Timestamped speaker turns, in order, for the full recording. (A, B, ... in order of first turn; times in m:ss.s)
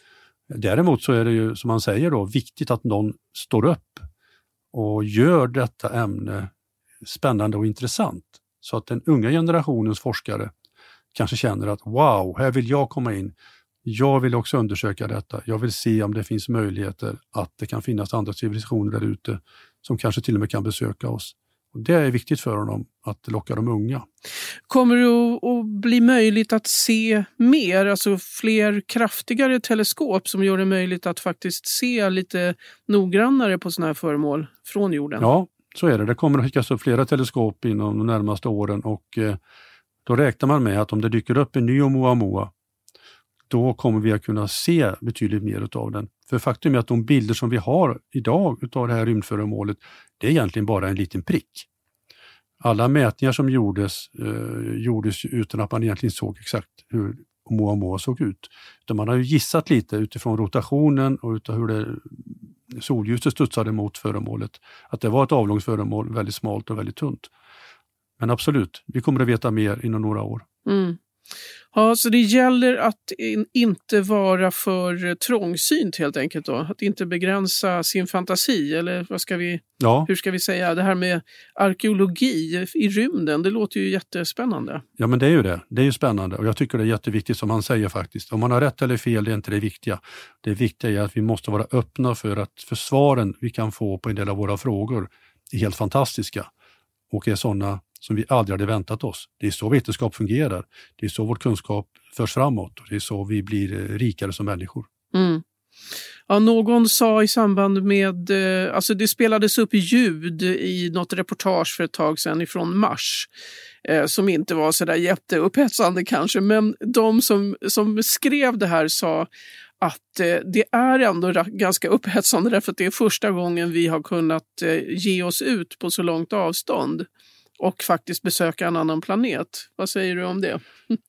0:00.5-0:04.1 A
0:04.7-0:06.5 A
0:07.0-0:10.5 A
0:11.1-0:24.0 A
0:24.7-0:35.3 B
0:35.2-0:39.4 A
0:40.0-0:42.5 A
0:43.5-0:51.7 A
0:52.6-1:07.3 A
1:08.2-1:10.4 A
1:10.7-1:11.0 B
1:11.7-1:24.8 B
1:19.8-1:20.1 A
1:25.0-1:36.5 A
1:37.1-1:44.9 A
1:45.1-1:45.4 B
1:46.3-1:53.3 B
1:53.8-1:59.3 B
1:59.8-2:07.1 B
2:07.6-2:11.0 B